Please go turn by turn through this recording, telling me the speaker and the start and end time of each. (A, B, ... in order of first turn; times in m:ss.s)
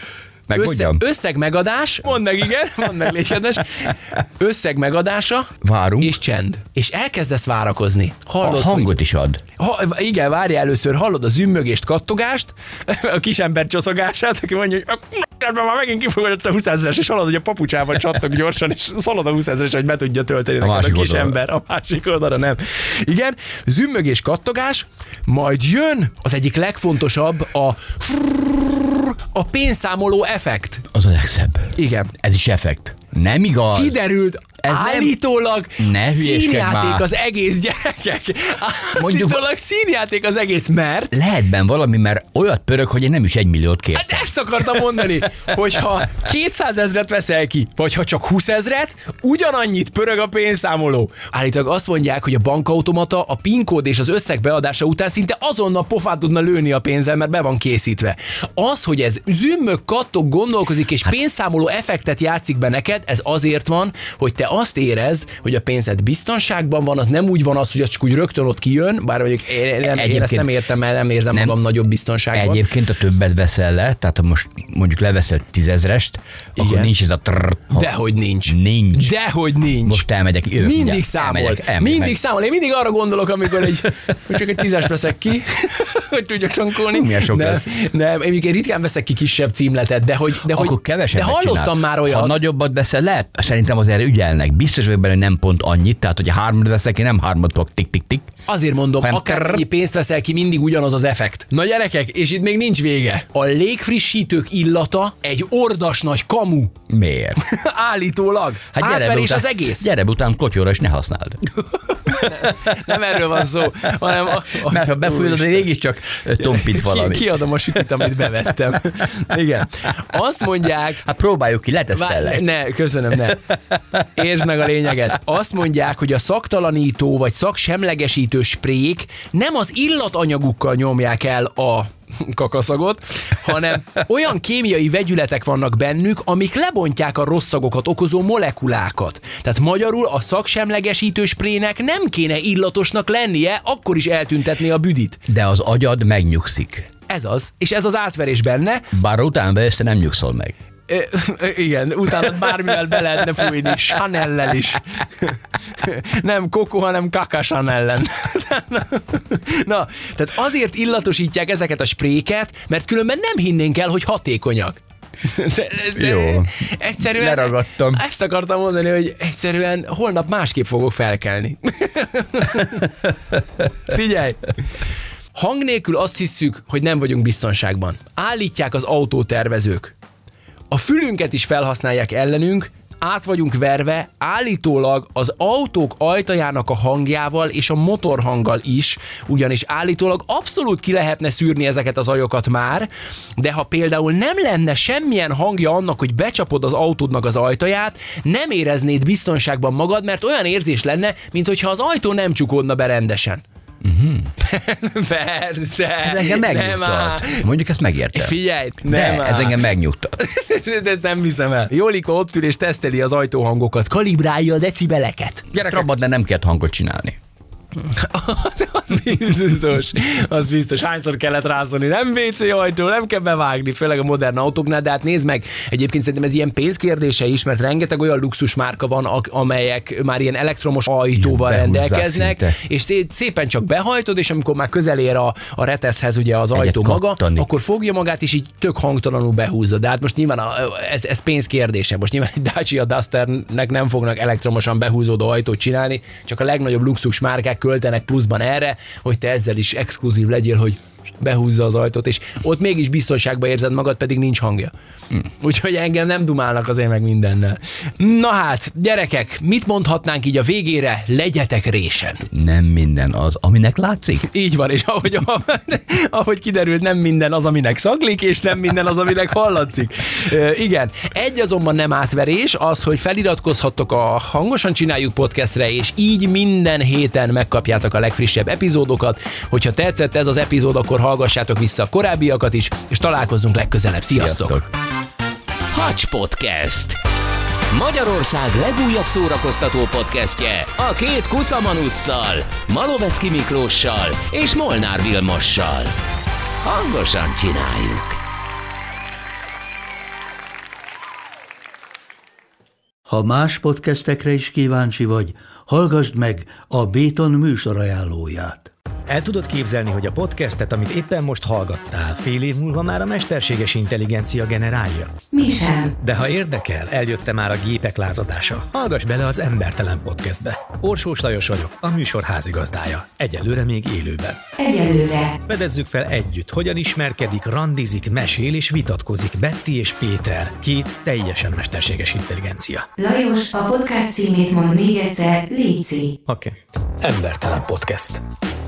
0:00.5-0:01.0 A
0:00.5-0:09.0 B
0:05.6-0:06.1 A
0:08.4-0:09.4 A
0:09.6-0:30.8 B
0:20.6-0:21.4 A
0:30.9-0:34.0 A
0:31.8-0:32.1 B
0:33.7-0:41.1 B
0:34.6-0:35.2 A
0:35.8-0:37.0 A
0:38.9-0:39.4 A
0:41.1-0:44.8 A
0:43.9-1:12.6 B
1:09.8-1:10.5 A
1:12.3-1:17.9 A
1:16.6-1:16.9 B
1:17.7-1:20.0 B
1:18.5-1:19.1 A
1:19.8-1:22.2 A
1:20.6-1:32.4 B
1:26.9-1:27.7 A
1:30.5-1:38.3 A
1:38.5-1:46.7 B
1:39.0-1:39.6 A
1:46.9-1:47.4 A
1:47.4-1:49.9 B
1:48.7-1:51.4 A
1:51.9-1:55.7 B
1:52.3-1:52.7 A
1:54.5-1:57.8 A
1:56.4-2:01.0 B
2:01.0-2:02.4 A
2:01.9-2:03.5 B
2:04.1-2:25.2 B
2:25.3-2:26.9 A
2:27.1-2:28.8 B
2:28.9-2:30.5 A
2:30.9-2:52.9 B
2:45.9-2:48.0 A
2:53.8-2:54.6 B
2:55.3-2:59.9 B
3:00.7-3:23.4 B
3:23.8-3:24.3 A
3:24.4-3:27.4 B
3:26.0-3:30.2 A
3:28.1-3:29.6 B
3:30.2-3:35.8 B
3:35.6-3:37.2 A
3:37.8-4:14.7 B
3:51.1-3:52.6 A
3:56.5-3:57.5 A
4:15.4-4:22.2 B
4:22.3-4:24.3 A
4:24.3-4:44.6 B
4:44.1-4:44.7 A
4:45.7-4:47.0 C
4:47.7-4:55.9 C
4:56.6-4:58.2 C
5:03.1-5:08.7 D
5:09.1-5:15.2 E
5:15.3-5:15.9 F
5:16.0-5:24.4 E
5:24.6-5:25.4 F
5:25.5-5:32.9 E
5:33.0-5:36.1 F
5:36.3-5:38.2 E